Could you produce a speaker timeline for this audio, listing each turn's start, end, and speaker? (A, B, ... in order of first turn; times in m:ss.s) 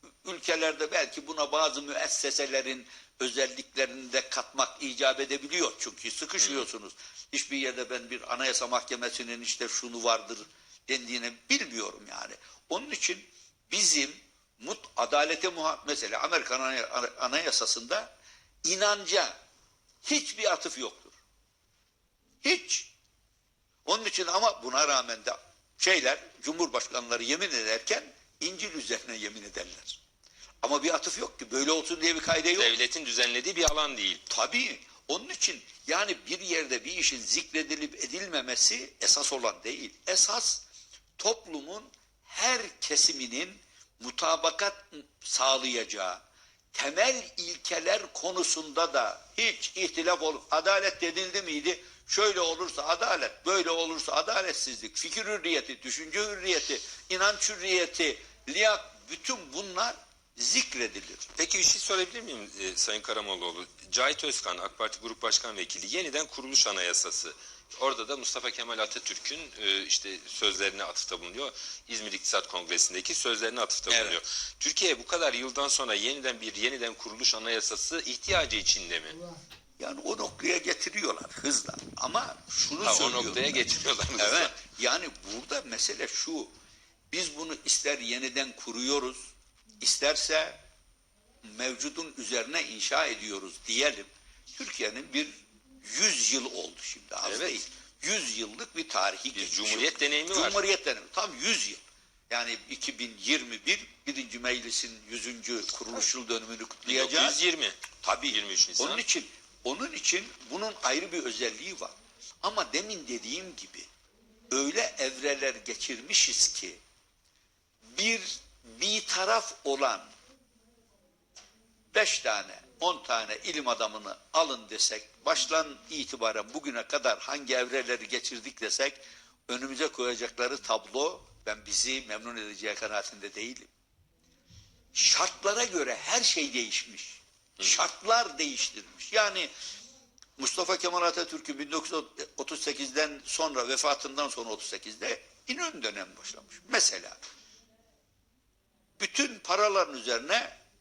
0:00.2-0:18.1 A
0:06.4-0:06.6 B
0:18.6-0:19.3 A
0:20.0-0:21.2 A
0:22.4-0:22.9 A
0:23.8-0:30.0 A
0:30.6-0:32.7 A
0:32.6-0:34.2 B
0:34.3-0:40.6 A
0:41.2-0:46.2 A
0:46.7-1:01.3 A
1:01.4-1:19.2 B
1:13.9-1:14.2 A
1:19.8-1:23.6 A
1:22.8-1:24.6 B
1:24.2-1:26.5 A
1:27.1-1:29.2 A
1:29.8-1:30.6 A
1:31.4-1:47.4 A
1:37.2-1:37.6 B
1:39.3-1:40.6 B
1:46.8-1:49.0 B
1:48.0-1:53.9 A
1:54.5-1:56.8 A
1:57.9-2:00.1 A
2:01.9-2:13.7 A
2:14.9-2:19.5 A
2:20.4-2:27.2 A
2:29.0-2:30.5 A